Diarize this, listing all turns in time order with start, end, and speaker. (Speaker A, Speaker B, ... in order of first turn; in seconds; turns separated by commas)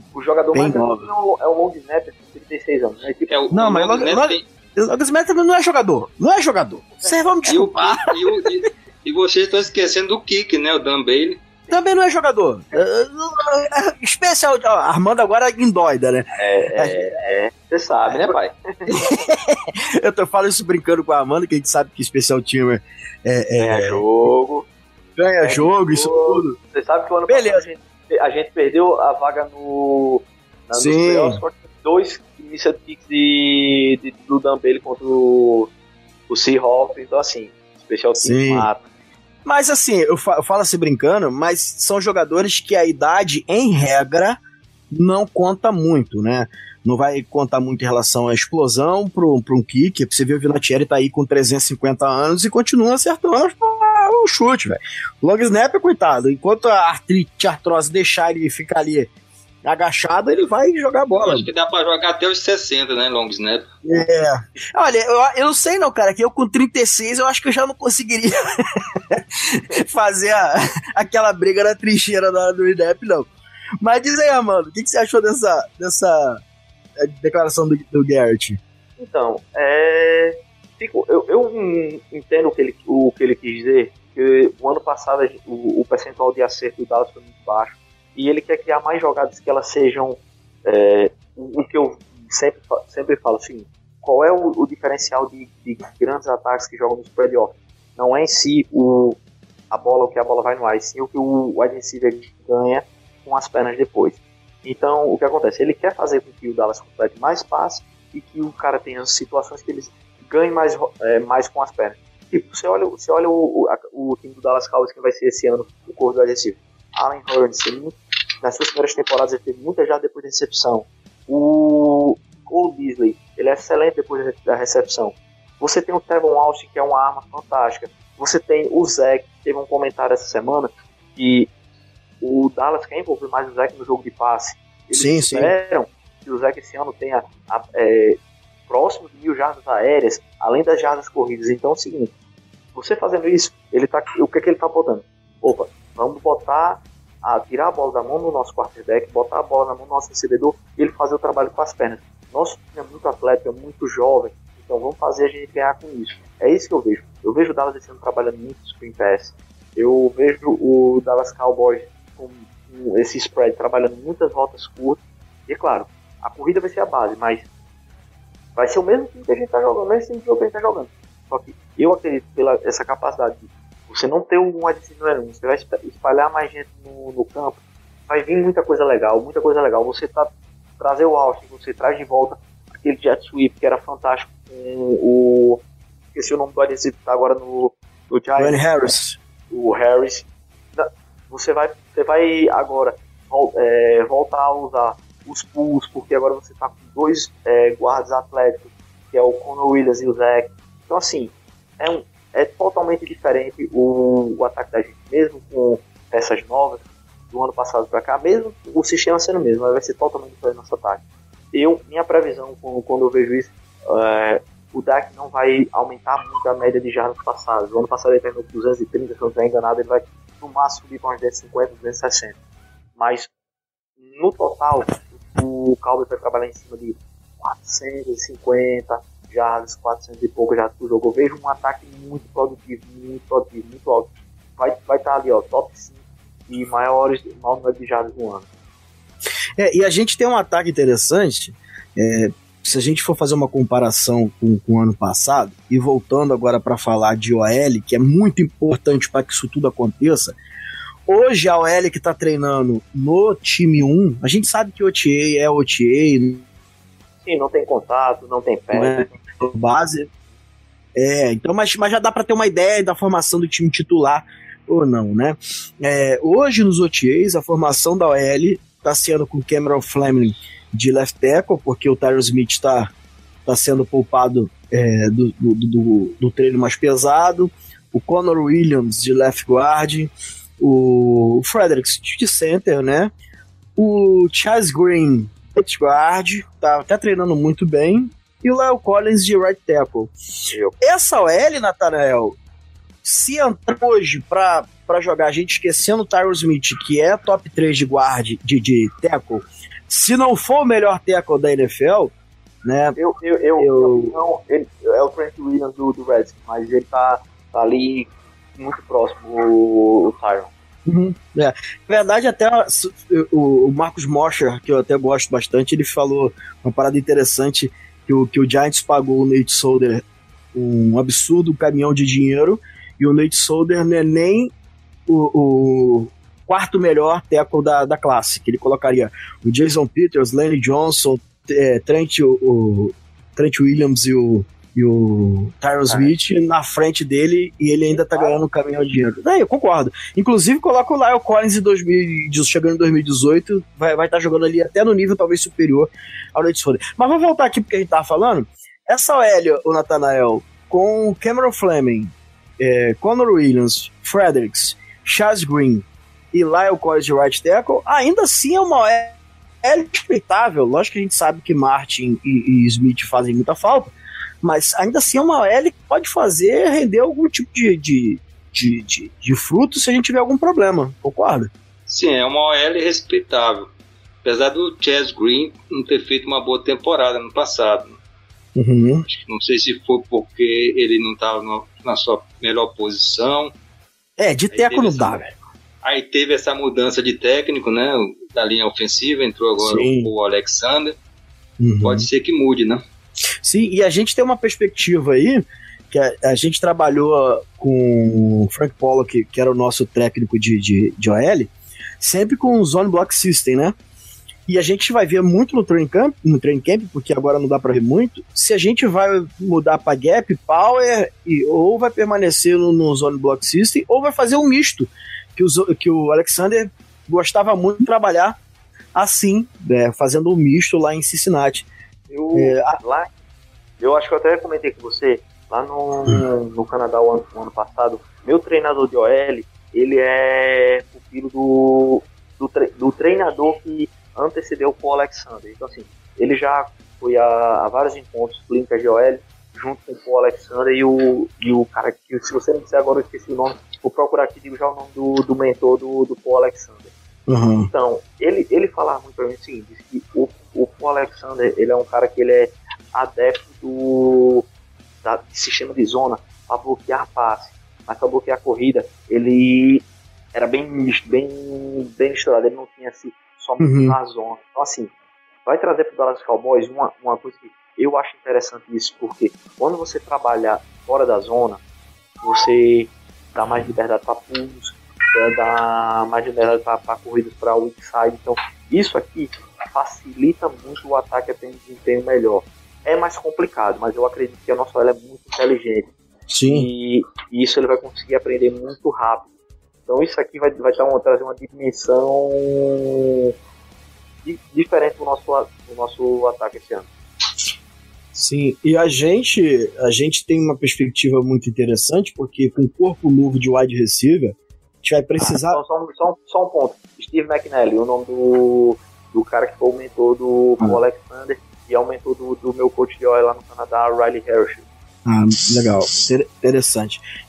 Speaker A: 0.1-3.3, Speaker B: 0.5-1.1, Speaker C: 3.3-4.4, Speaker B: 3.5-8.2, Speaker A: 6.9-7.5, Speaker C: 7.5-11.4, Speaker B: 11.7-17.1, Speaker A: 16.4-19.1, Speaker B: 18.9-24.1, Speaker A: 23.6-24.7, Speaker B: 25.2-26.6, Speaker A: 25.4-35.7, Speaker B: 27.3-27.6, Speaker B: 30.8-31.4, Speaker A: 36.3-38.9, Speaker B: 38.2-38.7, Speaker B: 39.5-44.4, Speaker B: 44.9-59.1, Speaker B: 59.6-61.5, Speaker C: 61.1-63.7, Speaker B: 63.8-73.3, Speaker B: 73.8-76.4, Speaker B: 77.0-78.6, Speaker A: 79.0-99.2, Speaker A: 99.7-131.5, Speaker A: 132.2-138.2, Speaker B: 134.9-135.5, Speaker A: 138.7-142.1, Speaker A: 142.8-167.5, Speaker A: 168.6-185.6, Speaker A: 186.1-188.7, Speaker B: 188.4-189.2, Speaker A: 189.5-211.0, Speaker A: 211.5-222.4, Speaker A: 223.0-223.3, Speaker A: 224.1-238.5, Speaker B: 239.6-250.4, Speaker B: 251.1-256.4, Speaker A: 257.2-259.2, Speaker B: 258.7-260.1, Speaker B: 260.9-272.9, Speaker B: 273.5-283.1, Speaker B: 283.8-290.1, Speaker A: 290.5-290.8, Speaker B: 290.8-292.4, Speaker B: 293.0-302.1, Speaker B: 302.6-303.0, Speaker A: 303.0-310.5, Speaker B: 303.6-304.2, Speaker B: 310.9-324.5, Speaker B: 325.1-371.5, Speaker A: 335.9-336.1, Speaker A: 337.9-338.4, Speaker C: 371.9-373.7, Speaker C: 374.2-377.9, Speaker B: 378.6-379.1, Speaker C: 379.1-383.5, Speaker B: 384.2-385.3, Speaker C: 384.5-385.2, Speaker C: 385.8-391.0, Speaker B: 389.6-390.1, Speaker B: 391.6-392.1, Speaker C: 391.8-392.8, Speaker B: 393.4-403.8, Speaker B: 404.5-418.4, Speaker B: 418.9-421.7, Speaker A: 422.1-423.1, Speaker B: 422.3-422.8, Speaker A: 423.8-446.9, Speaker B: 447.3-447.7, Speaker A: 447.6-454.5, Speaker A: 455.0-464.9, Speaker B: 463.6-464.0, Speaker A: 465.5-471.6, Speaker A: 472.2-485.9, Speaker B: 486.3-486.7, Speaker A: 486.5-489.3, Speaker A: 489.9-493.3, Speaker A: 494.2-496.9, Speaker B: 498.1-505.6, Speaker A: 505.2-514.6, Speaker B: 515.0-517.0